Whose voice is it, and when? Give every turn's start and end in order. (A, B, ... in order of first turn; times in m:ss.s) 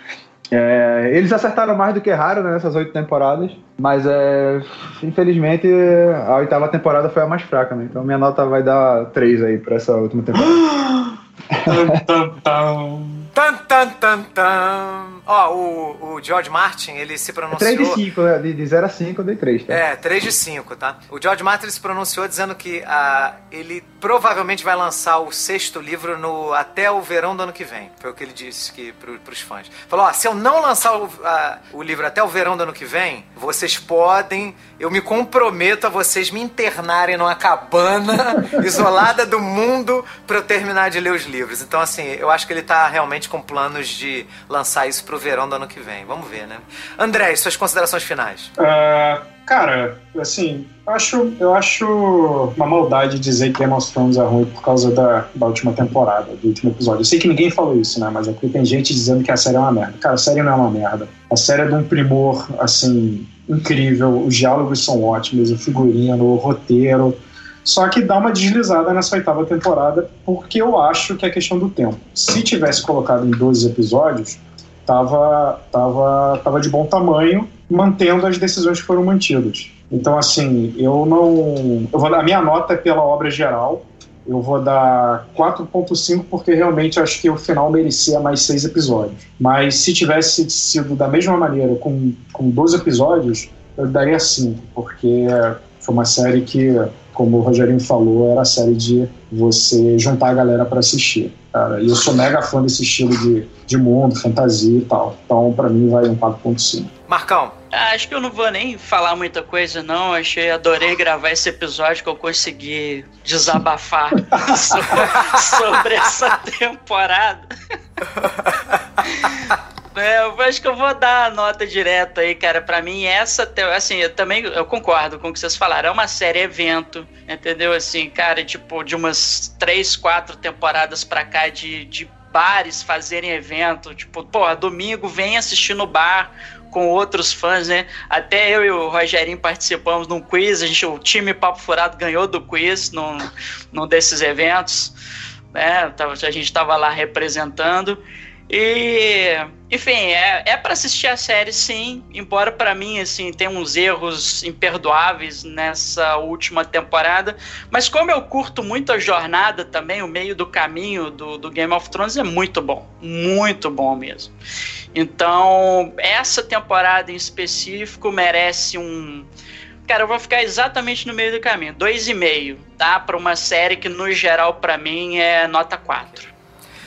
0:00.5-0:10.6 A
0:10.5-0:13.3 B
0:11.5-0:12.0 A
0:13.3-0:18.0 C
0:17.5-0:19.8 A
0:19.7-0:48.5 C
0:48.6-1:46.9 B
1:47.1-1:47.6 C
1:47.7-1:57.5 D
1:54.3-1:54.7 B
1:59.0-2:24.9 D
2:25.5-2:44.3 D
2:44.9-2:49.3 D
2:49.8-2:56.3 D